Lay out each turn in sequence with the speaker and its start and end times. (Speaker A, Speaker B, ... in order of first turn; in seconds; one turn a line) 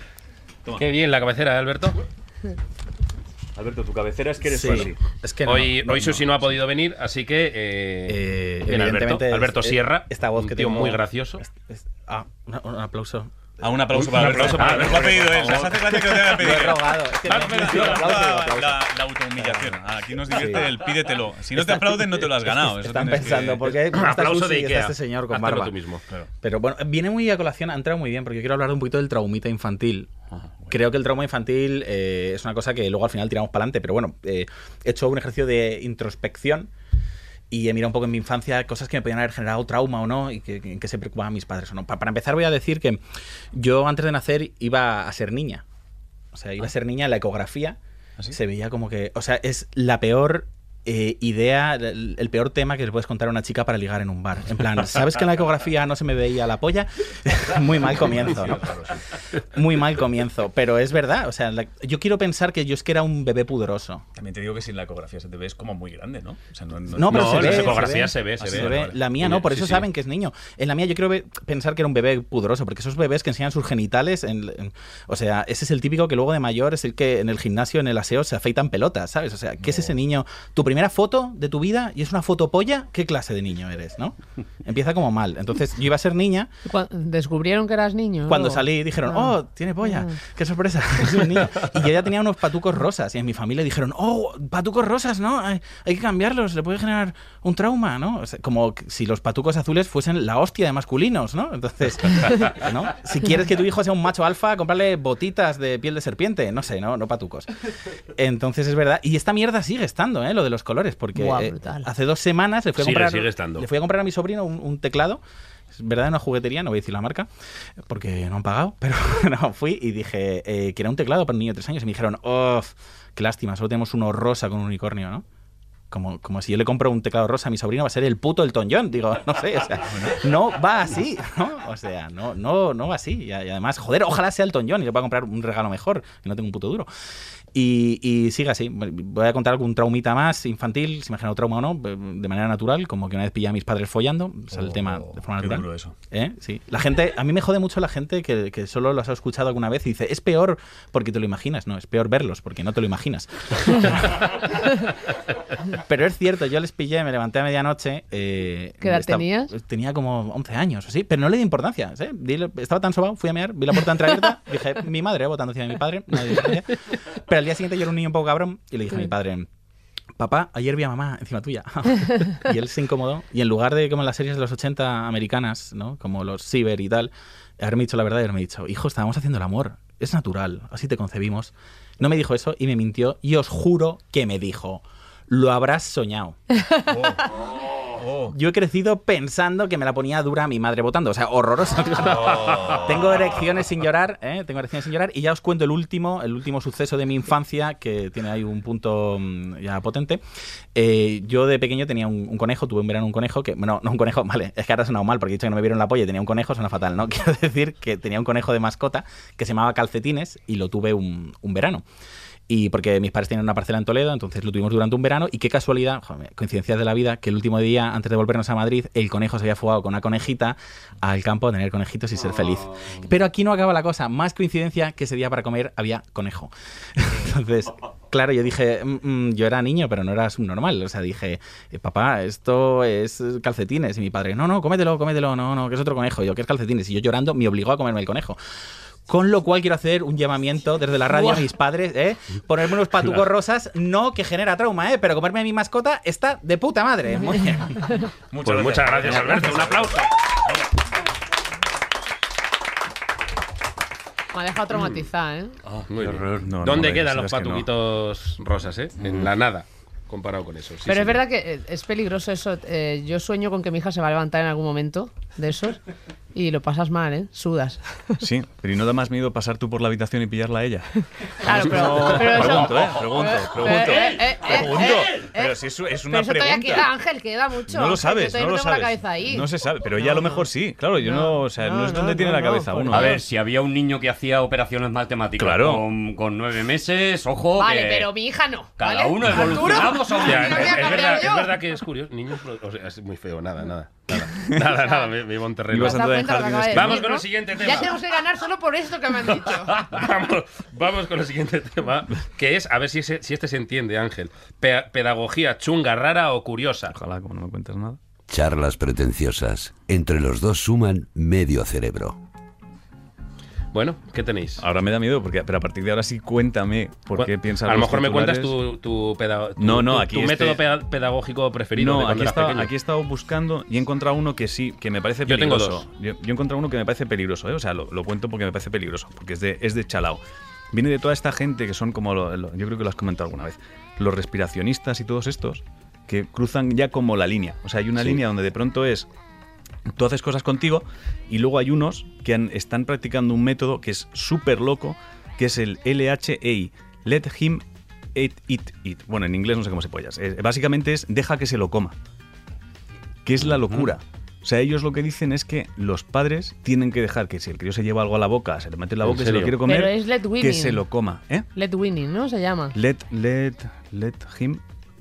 Speaker A: 0.8-2.0
Speaker B: 3.5-5.0
Speaker C: 4.5-6.2
Speaker A: 5.5-11.4
Speaker C: 8.1-13.3
Speaker B: 13.6-23.8
Speaker A: 13.9-15.8
Speaker C: 13.9-19.7
Speaker A: 17.3-18.3
Speaker C: 20.3-20.8
Speaker C: 21.6-25.7
Speaker A: 23.9-26.0
Speaker C: 26.4-30.1
Speaker B: 30.3-30.8
Speaker C: 30.7-36.7
Speaker C: 37.5-43.0
Speaker C: 43.5-45.6
Speaker C: 46.3-47.8
Speaker C: 48.3-58.6
Speaker B: 57.8-59.0
Speaker C: 59.5-64.0
Speaker B: 64.2-69.0
Speaker C: 66.9-86.5
Speaker A: 67.0-69.9
Speaker D: 86.7-89.3
Speaker C: 88.3-107.5
Speaker D: 89.8-90.2
Speaker C: 108.2-115.2
Speaker D: 111.2-111.9
Speaker A: 112.8-113.7
Speaker C: 115.7-117.3
Speaker C: 117.9-125.2
Speaker C: 125.9-136.9
Speaker C: 137.5-154.2
Speaker B: 144.5-146.0
Speaker C: 155.8-166.7
Speaker D: 158.8-159.5
Speaker C: 167.3-169.5
Speaker C: 170.2-186.4
Speaker B: 186.9-187.2
Speaker B: 188.0-188.3
Speaker C: 188.3-200.2
Speaker B: 192.4-192.8
Speaker C: 200.7-211.8
Speaker C: 212.5-238.4
Speaker C: 239.1-247.8
Speaker B: 248.3-250.0
Speaker A: 248.4-250.1
Speaker D: 254.3-255.5
Speaker A: 255.9-261.2
Speaker B: 256.0-257.7
Speaker D: 260.9-265.8
Speaker D: 266.3-268.2
Speaker B: 268.2-270.9
Speaker D: 271.4-275.6
Speaker B: 271.4-276.9
Speaker E: 273.7-274.2
Speaker E: 274.8-275.1
Speaker D: 276.1-280.5
Speaker B: 277.7-283.2
Speaker D: 281.0-283.1
Speaker E: 282.9-288.1
Speaker B: 285.4-285.9
Speaker D: 287.6-291.6
Speaker E: 288.8-291.2
Speaker A: 290.2-296.0
Speaker B: 294.1-294.6
Speaker D: 294.8-295.1
Speaker B: 295.7-297.1
Speaker D: 295.8-299.8
Speaker A: 296.7-298.0
Speaker A: 299.3-306.9
Speaker B: 306.9-308.0
Speaker F: 308.3-312.2
Speaker A: 313.7-314.6
Speaker B: 314.6-318.5
Speaker A: 317.2-322.7
Speaker B: 319.6-320.6
Speaker B: 321.8-339.1
Speaker A: 325.3-325.8
Speaker B: 339.9-352.0
Speaker B: 353.2-361.5
Speaker A: 359.0-359.6
Speaker D: 359.6-360.9
Speaker D: 361.6-362.8
Speaker B: 362.7-364.6